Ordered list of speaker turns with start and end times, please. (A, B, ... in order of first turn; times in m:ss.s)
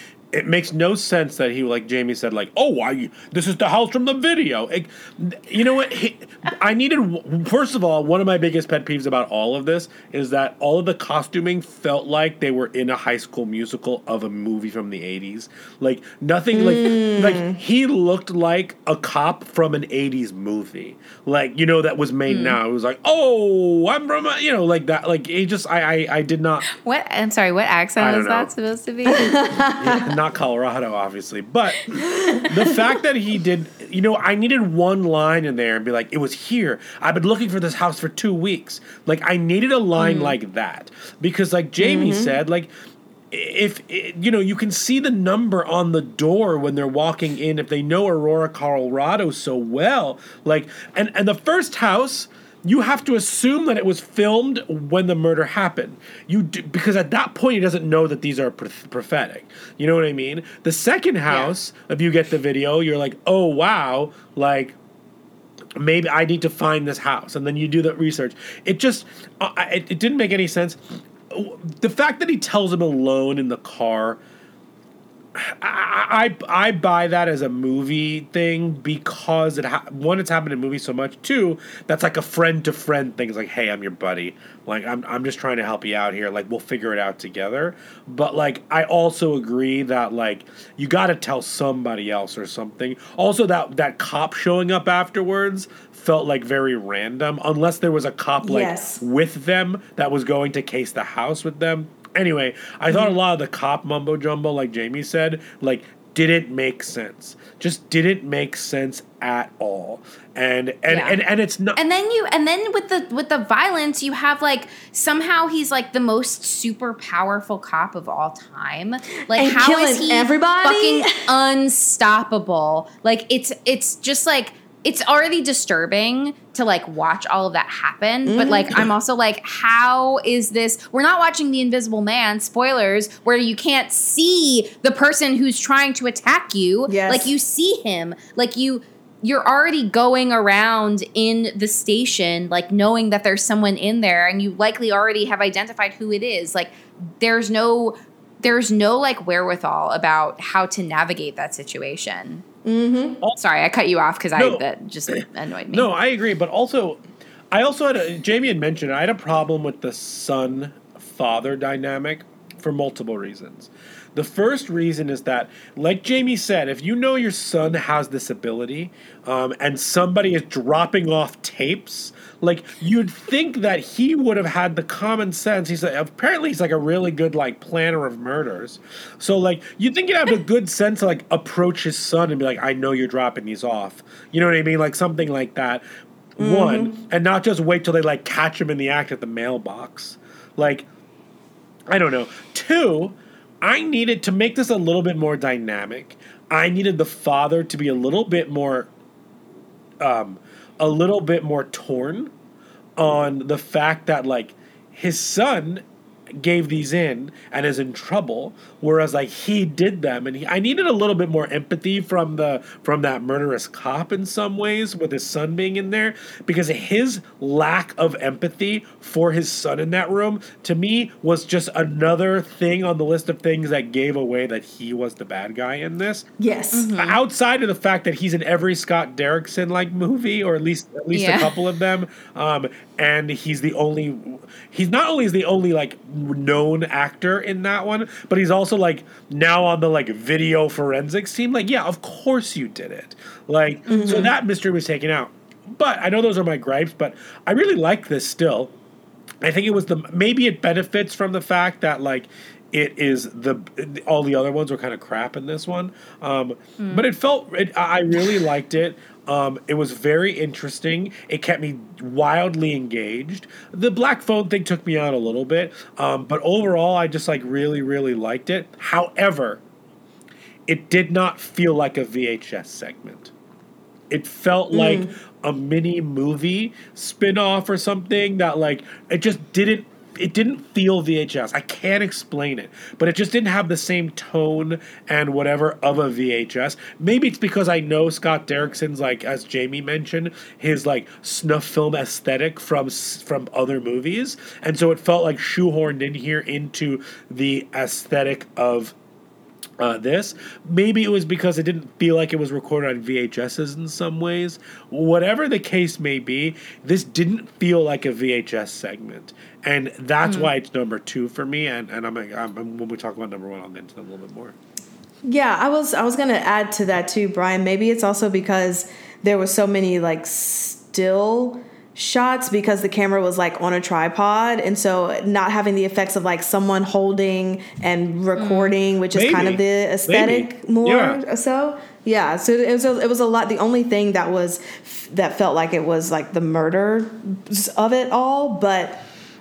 0:00.3-0:26.7 A
0:16.5-0:17.6 B
0:22.3-0:22.6 C
0:26.7-0:29.4 C
0:28.0-0:28.5 A
0:29.1-0:30.1 B
0:29.8-0:31.9 A
0:32.5-0:42.7 A
0:40.0-0:40.3 C
0:41.8-0:42.4 B
0:43.3-1:04.8 A
1:05.8-1:10.8 A
1:11.3-1:14.2 A
1:15.4-1:51.8 A
1:38.4-1:39.0 B
1:50.9-1:51.2 C
1:51.8-2:32.4 C
1:59.3-2:01.2 B
2:08.3-2:08.8 B
2:16.9-2:17.3 B
2:32.6-2:33.2 B
2:33.4-2:35.9 C
2:34.4-2:35.2 A
2:35.7-2:37.0 A
2:37.5-3:05.8 A
3:06.4-3:10.9 A
3:06.4-3:07.0 B
3:11.9-3:18.9 A
3:20.0-3:22.3 A
3:23.0-3:25.8 A
3:26.3-3:46.3 A
3:46.4-3:46.9 B
3:46.7-3:47.2 C
3:47.0-4:08.7 A
3:51.1-3:51.6 C
4:03.9-4:04.2 C
4:03.9-4:04.3 B
4:09.4-4:29.6 A
4:16.8-4:17.0 C
4:30.7-4:33.3 A
4:34.1-4:58.9 A
4:34.7-4:35.1 B
4:59.8-5:14.6 A
5:10.2-5:10.5 C
5:15.2-5:39.0 B
5:28.4-5:28.7 C
5:29.1-5:31.2 A